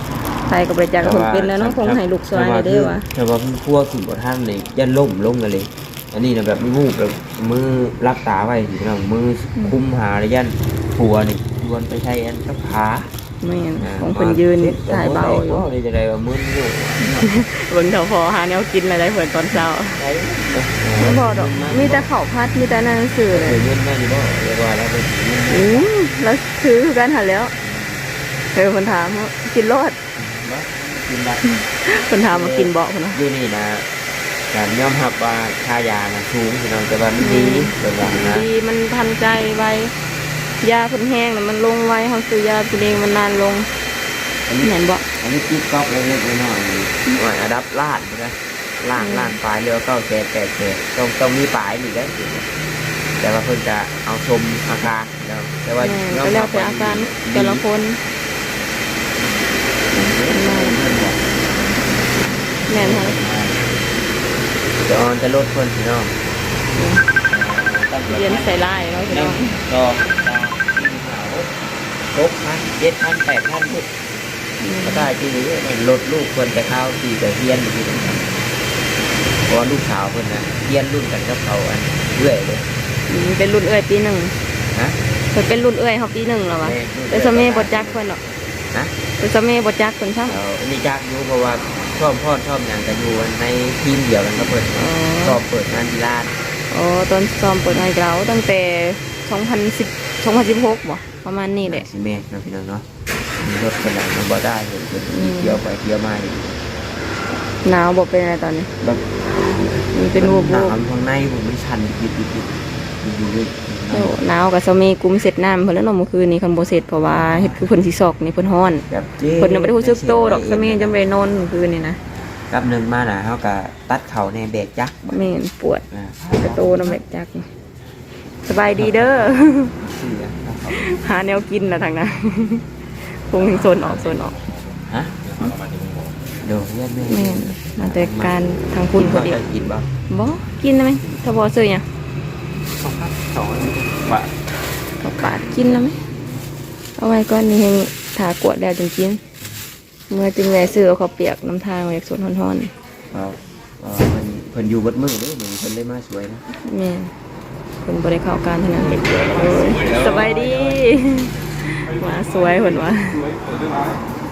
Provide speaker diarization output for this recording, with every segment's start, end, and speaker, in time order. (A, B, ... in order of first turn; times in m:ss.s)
0:00.5-0:03.1 A
0:01.0-0:13.1 B
0:13.4-0:15.6 A
0:13.8-0:17.4 B
0:17.0-0:20.0 A
0:19.9-0:22.1 B
0:20.9-0:23.6 A
0:23.3-0:25.9 B
0:25.5-0:27.5 A
0:27.6-0:28.0 B
0:28.5-0:30.0 A
0:30.1-0:33.9 B
0:31.5-0:33.2 A
0:34.5-0:38.5 B
0:37.2-0:39.9 A
0:40.6-0:43.7 A
0:44.5-0:52.5 B
0:44.6-0:45.0 A
0:49.0-0:49.4 A
0:53.2-0:57.6 B
0:55.8-0:58.0 A
0:59.9-1:00.8 A
0:59.9-1:01.2 B
1:02.7-1:03.2 A
1:02.7-1:03.6 B
1:04.8-1:06.1 B
1:06.7-1:07.0 A
1:07.2-1:11.5 B
1:08.1-1:09.6 A
1:12.1-1:13.9 B
1:14.6-1:15.1 A
1:14.8-1:18.4 B
1:19.4-1:22.7 B
1:23.1-1:24.4 A
1:24.7-1:25.0 B
1:25.3-1:28.2 A
1:26.6-1:28.0 B
1:29.2-1:30.4 A
1:30.3-1:36.4 B
1:34.7-1:35.4 A
1:36.7-1:41.8 A
1:41.6-1:42.9 B
1:43.4-1:46.5 B
1:45.1-1:45.6 A
1:47.6-1:48.7 A
1:48.8-1:54.2 B
1:49.9-1:50.7 A
1:53.9-1:58.9 A
1:57.0-1:57.7 B
1:58.9-2:01.0 B
1:59.4-2:02.0 A
2:02.5-2:05.2 B
2:05.1-2:07.5 A
2:05.9-2:07.0 B
2:08.4-2:09.7 A
2:08.6-2:10.9 B
2:10.7-2:14.4 A
2:13.3-2:14.2 B
2:14.1-2:14.7 C
2:14.8-2:15.6 B
2:15.4-2:16.2 C
2:16.4-2:19.9 B
2:17.1-2:19.4 A
2:20.1-2:21.8 A
2:22.8-2:24.3 C
2:25.0-2:26.0 A
2:27.0-2:29.2 A
2:30.1-2:32.7 A
2:33.1-2:36.4 B
2:36.5-2:37.1 A
2:37.8-2:43.2 A
2:39.0-2:41.0 C
2:39.0-2:39.6 B
2:41.6-2:44.0 C